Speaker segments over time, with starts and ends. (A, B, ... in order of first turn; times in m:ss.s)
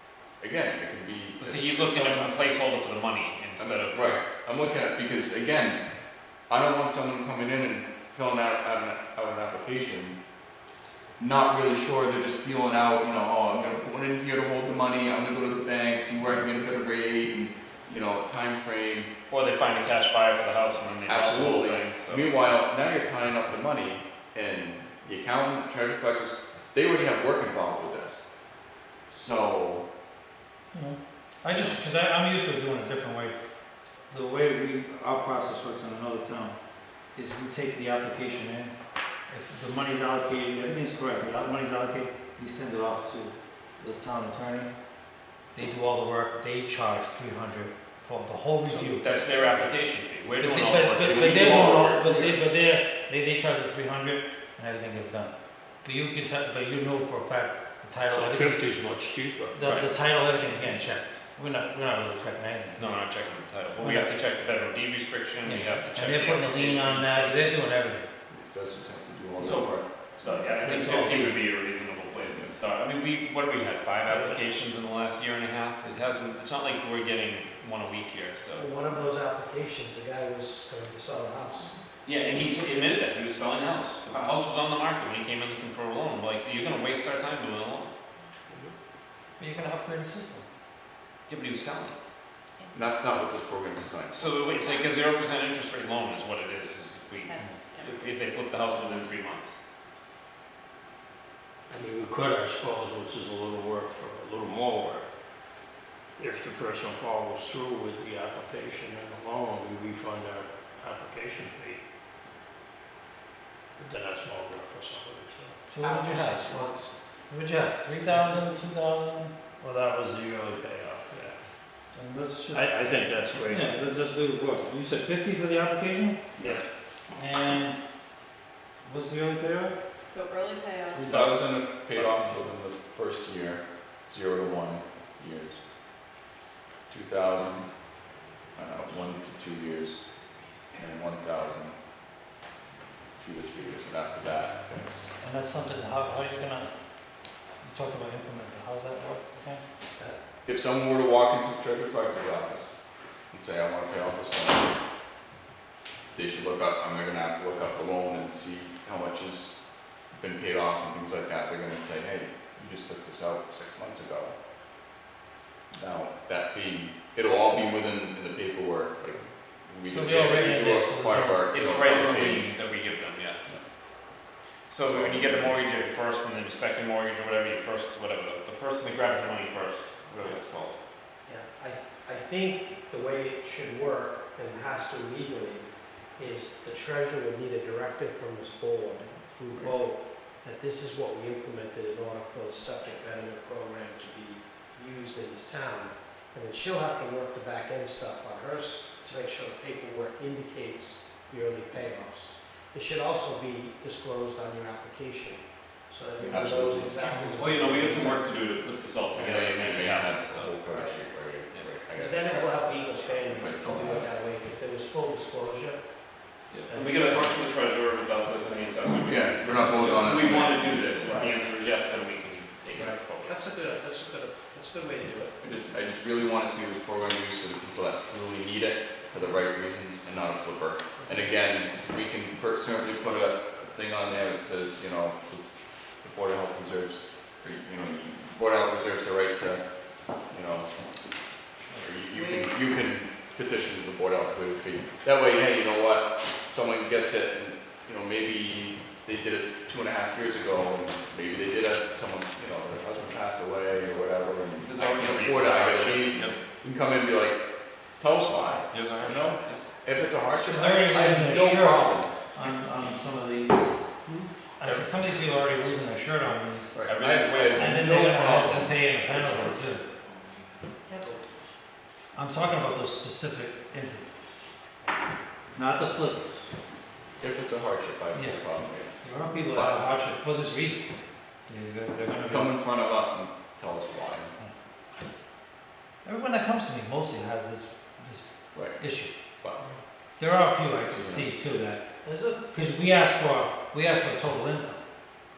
0:00.3-0:02.6 A
0:01.4-0:04.2 B
0:03.6-0:05.8 A
0:06.5-0:10.2 A
0:11.2-0:19.1 A
0:19.3-0:22.3 B
0:21.1-0:28.3 A
0:29.1-0:29.9 A
0:30.7-0:33.4 C
0:34.1-0:36.6 C
0:37.2-0:38.7 C
0:39.3-0:44.7 C
0:45.6-0:49.3 C
0:48.7-0:52.0 B
0:50.4-0:55.3 C
0:51.0-0:52.4 A
0:55.8-0:58.7 C
0:58.1-0:59.8 D
0:59.6-1:02.9 C
1:02.8-1:07.6 B
1:03.8-1:04.1 C
1:05.4-1:08.1 C
1:08.3-1:09.8 A
1:09.4-1:18.7 B
1:10.6-1:11.4 C
1:14.1-1:14.4 D
1:18.5-1:21.8 E
1:22.0-1:27.9 B
1:29.4-1:30.5 C
1:31.3-1:32.0 B
1:32.7-1:34.4 A
1:34.1-1:39.6 B
1:37.2-1:38.0 F
1:37.4-1:37.6 C
1:41.7-1:45.1 D
1:46.2-1:51.8 D
1:53.8-1:55.6 D
1:55.7-1:56.7 C
1:55.8-1:56.9 E
1:57.3-1:59.4 C
1:59.6-2:01.4 D
2:01.9-2:02.8 C
2:02.5-2:03.8 D
2:03.4-2:06.2 C
2:06.4-2:06.6 D
2:07.2-2:07.8 C
2:08.8-2:09.8 C
2:10.1-2:11.1 F
2:11.0-2:15.6 A
2:11.9-2:12.3 B
2:16.9-2:17.7 A
2:18.6-2:20.0 A
2:20.8-2:21.8 A
2:23.2-2:25.1 A
2:25.2-2:26.7 C
2:27.6-2:29.6 C
2:30.4-2:32.8 A
2:33.3-2:34.8 A
2:36.1-2:39.6 A
2:40.1-2:44.4 A
2:45.8-2:52.6 A
2:49.9-2:51.4 C
2:51.5-2:53.4 B
2:54.7-3:00.8 B
2:54.8-2:55.6 A
3:01.2-3:28.2 E
3:26.2-3:27.1 A
3:27.0-3:30.5 B
3:29.1-3:34.1 A
3:30.7-3:31.0 E
3:31.9-3:35.9 E
3:36.5-3:43.4 B
3:36.7-3:37.3 E
3:39.0-3:41.2 A
3:39.8-3:40.2 E
3:41.0-3:41.3 E
3:42.8-3:45.4 E
3:45.4-3:55.4 A
3:51.0-3:51.3 E
3:56.0-3:59.6 A
4:00.3-4:00.7 A
4:01.7-4:22.1 A
4:02.1-4:02.6 F
4:14.6-4:16.4 B
4:18.7-4:19.6 B
4:20.4-4:23.8 C
4:24.1-4:24.9 B
4:24.6-4:26.8 C
4:26.7-4:29.5 A
4:26.8-4:27.9 B
4:27.5-4:29.8 C
4:29.3-4:29.7 B
4:30.9-4:31.2 E
4:32.1-4:34.2 C
4:35.6-4:36.4 C
4:37.2-4:39.0 A
4:38.1-4:38.4 C
4:39.0-4:40.8 C
4:39.5-4:39.9 A
4:41.5-4:42.5 C
4:42.3-4:44.3 A
4:46.0-4:49.1 C
4:48.5-4:48.8 A
4:50.2-4:51.8 C
4:50.9-4:51.3 A
4:52.0-4:52.5 E
4:52.5-4:54.8 C